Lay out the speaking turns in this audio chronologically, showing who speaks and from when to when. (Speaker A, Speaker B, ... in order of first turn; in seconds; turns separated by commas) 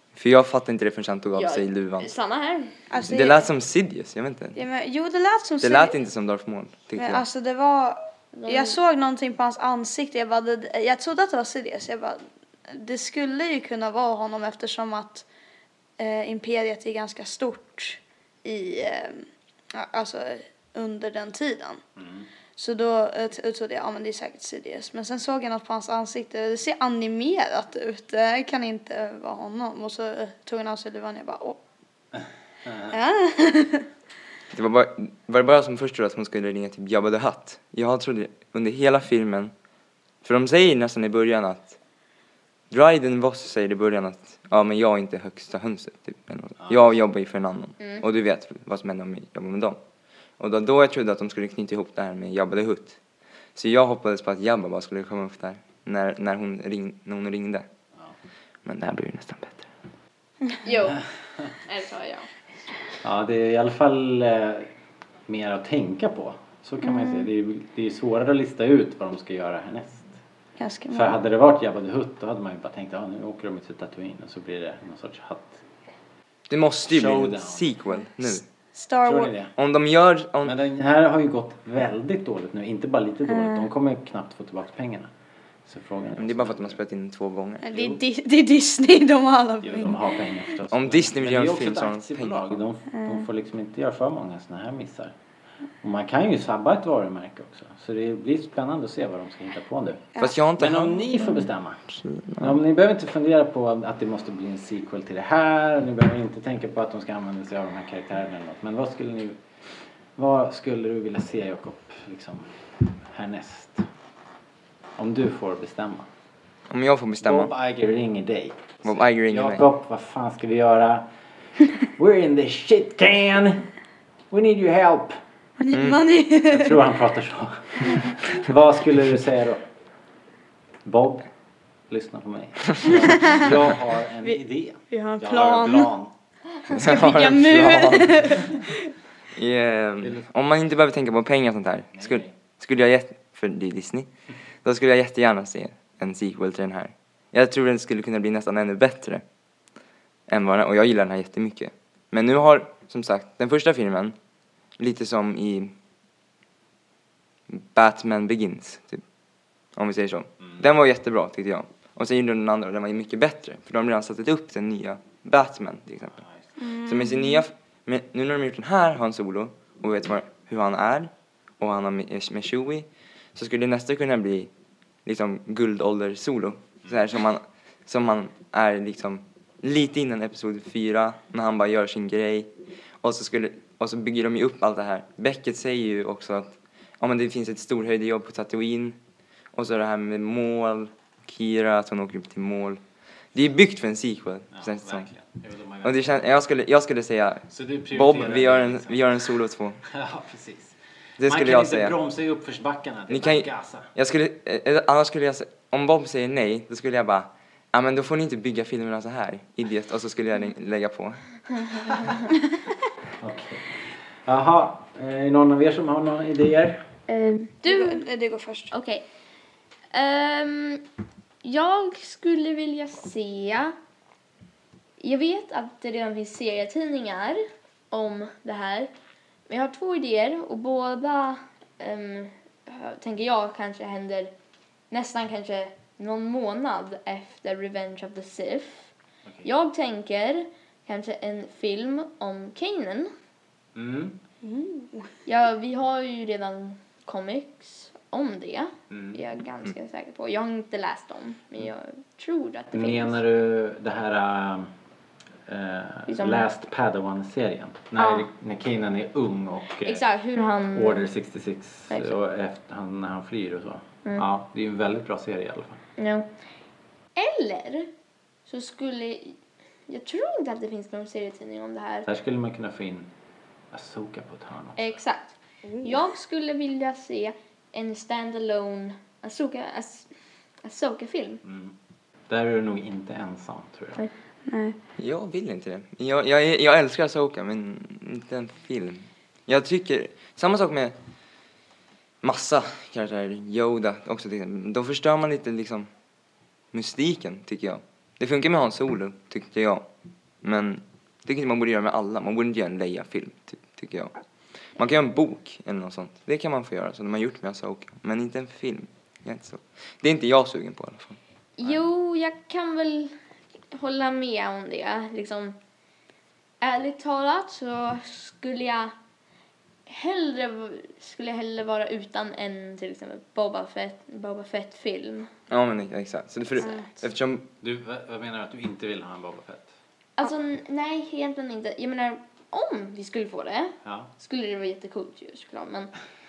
Speaker A: 0.1-2.1, Speaker B: 1.4-2.7, Speaker C: 2.9-3.5, Speaker A: 3.1-4.6, Speaker C: 4.5-6.0, Speaker A: 5.6-7.3, Speaker C: 7.0-15.3, Speaker B: 8.3-8.8, Speaker C: 16.0-21.8, Speaker D: 22.0-22.3, Speaker C: 22.6-31.6, Speaker D: 32.6-32.9, Speaker C: 32.9-33.9, Speaker A: 34.5-39.5, Speaker A: 40.2-41.8, Speaker A: 42.7-49.8, Speaker D: 46.6-46.9, Speaker A: 50.4-53.0, Speaker A: 53.5-57.7, Speaker A: 58.6-59.7, Speaker B: 60.6-62.3, Speaker D: 63.0-64.7, Speaker D: 65.3-70.2, Speaker C: 66.8-67.2, Speaker C: 70.6-71.2, Speaker D: 70.9-75.7, Speaker A: 76.5-78.5, Speaker D: 76.9-77.7, Speaker C: 78.7-79.3, Speaker D: 79.0-79.5, Speaker A: 79.6-80.6, Speaker D: 80.4-85.1, Speaker D: 85.7-86.8, Speaker A: 86.2-87.7, Speaker C: 87.6-90.0, Speaker D: 87.7-88.0, Speaker D: 89.6-95.2, Speaker A: 90.7-92.4, Speaker C: 93.0-93.2, Speaker D: 95.8-109.4, Speaker A: 100.2-101.1, Speaker A: 102.0-102.5, Speaker D: 110.2-113.9, Speaker D: 115.0-116.1, Speaker A: 116.7-117.5, Speaker D: 117.2-121.1, Speaker A: 118.8-119.6, Speaker D: 121.8-123.7, Speaker D: 124.3-125.2, Speaker C: 125.6-126.8, Speaker A: 125.7-126.0, Speaker D: 126.5-129.7, Speaker D: 130.8-131.3, Speaker D: 131.9-136.1, Speaker C: 132.9-133.4, Speaker C: 134.9-135.9, Speaker C: 136.6-138.7, Speaker A: 136.7-138.4, Speaker A: 139.3-144.1, Speaker D: 140.0-140.3, Speaker D: 141.9-142.3, Speaker A: 144.6-149.2, Speaker A: 150.3-154.2, Speaker A: 154.8-155.7, Speaker A: 157.5-159.0, Speaker A: 159.8-166.2, Speaker D: 160.4-160.7, Speaker D: 166.0-166.5, Speaker C: 166.6-167.4, Speaker A: 166.8-174.5, Speaker A: 175.1-189.0, Speaker A: 189.5-192.8, Speaker A: 193.3-195.1, Speaker D: 194.5-196.2, Speaker A: 195.8-199.8, Speaker D: 197.5-199.3, Speaker D: 199.9-203.9, Speaker A: 201.2-201.9, Speaker A: 203.1-211.2, Speaker D: 213.2-216.9, Speaker B: 217.1-218.1, Speaker C: 217.6-218.7, Speaker B: 218.7-219.0, Speaker B: 219.9-220.8, Speaker B: 221.4-223.8, Speaker B: 225.0-228.9, Speaker B: 229.5-234.3, Speaker B: 234.9-238.9, Speaker B: 239.4-243.1, Speaker D: 243.8-244.2, Speaker C: 244.4-245.1, Speaker B: 245.3-253.2, Speaker D: 248.9-249.2, Speaker D: 252.7-254.7, Speaker D: 255.5-260.1, Speaker B: 256.1-256.5, Speaker B: 259.9-261.1, Speaker D: 260.7-265.8, Speaker B: 266.0-266.3, Speaker B: 267.2-267.9, Speaker B: 268.5-269.4, Speaker B: 269.9-272.1, Speaker D: 272.1-273.1, Speaker D: 273.7-275.0, Speaker B: 274.8-280.1, Speaker C: 275.7-275.9, Speaker B: 280.6-281.4, Speaker D: 281.4-281.8, Speaker D: 282.3-284.0, Speaker C: 284.5-284.8, Speaker A: 285.0-290.9, Speaker A: 292.2-295.9, Speaker A: 296.7-299.9, Speaker A: 300.4-304.1, Speaker A: 304.8-311.2, Speaker B: 311.6-313.1, Speaker B: 313.7-315.6, Speaker B: 316.6-318.9, Speaker B: 319.9-325.3, Speaker A: 325.5-327.4, Speaker C: 326.6-326.9, Speaker D: 327.6-329.8, Speaker B: 330.2-335.9, Speaker D: 333.8-334.1